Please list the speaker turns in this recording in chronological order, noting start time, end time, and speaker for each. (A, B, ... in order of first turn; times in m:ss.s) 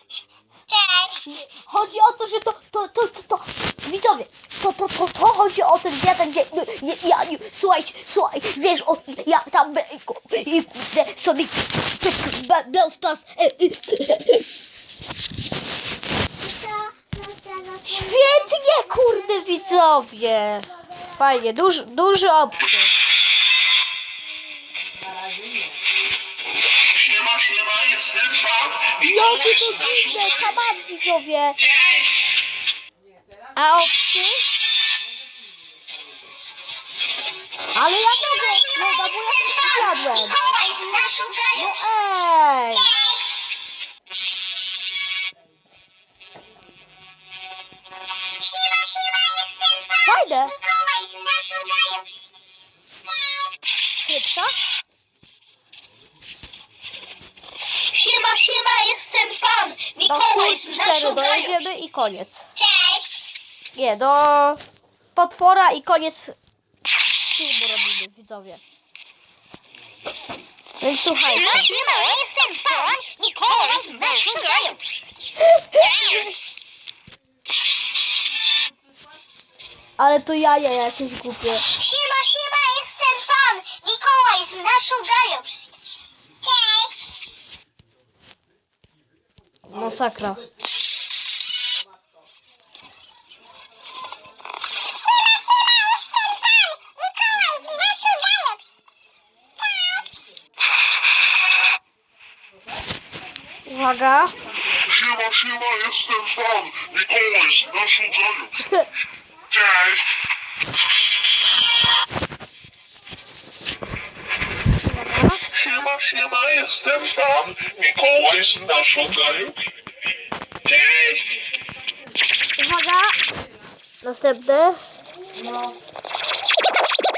0:00.7-0:01.2 A
0:01.2-0:14.5 B
0:16.4-0:18.5 A
0:17.8-0:22.9 B
0:26.8-0:30.5 C
0:29.0-0:31.6 B
0:33.6-0:34.4 B
0:37.7-0:40.4 B
0:38.0-0:41.7 A
0:41.5-0:42.9 B
0:42.8-0:43.2 A
0:48.3-0:52.1 A
0:50.0-0:50.5 B
0:53.0-0:53.6 A
0:54.0-0:54.5 B
0:57.9-1:01.5 A
1:00.0-1:02.4 B
1:02.6-1:03.1 A
1:03.7-1:04.6 B
1:05.1-1:06.4 B
1:07.3-1:08.6 B
1:10.8-1:11.7 B
1:11.4-1:14.9 A
1:15.4-1:15.7 B
1:15.7-1:16.3 A
1:20.0-1:21.6 B
1:21.7-1:25.7 A
1:26.4-1:27.0 A
1:29.7-1:30.4 B
1:36.5-1:38.6 A
1:43.6-1:44.4 B
1:44.8-1:48.6 C
1:49.5-1:50.1 C
1:54.8-1:55.4 B
1:55.5-1:59.7 C
2:00.6-2:01.4 C
2:02.6-2:03.2 B
2:04.0-2:04.8 B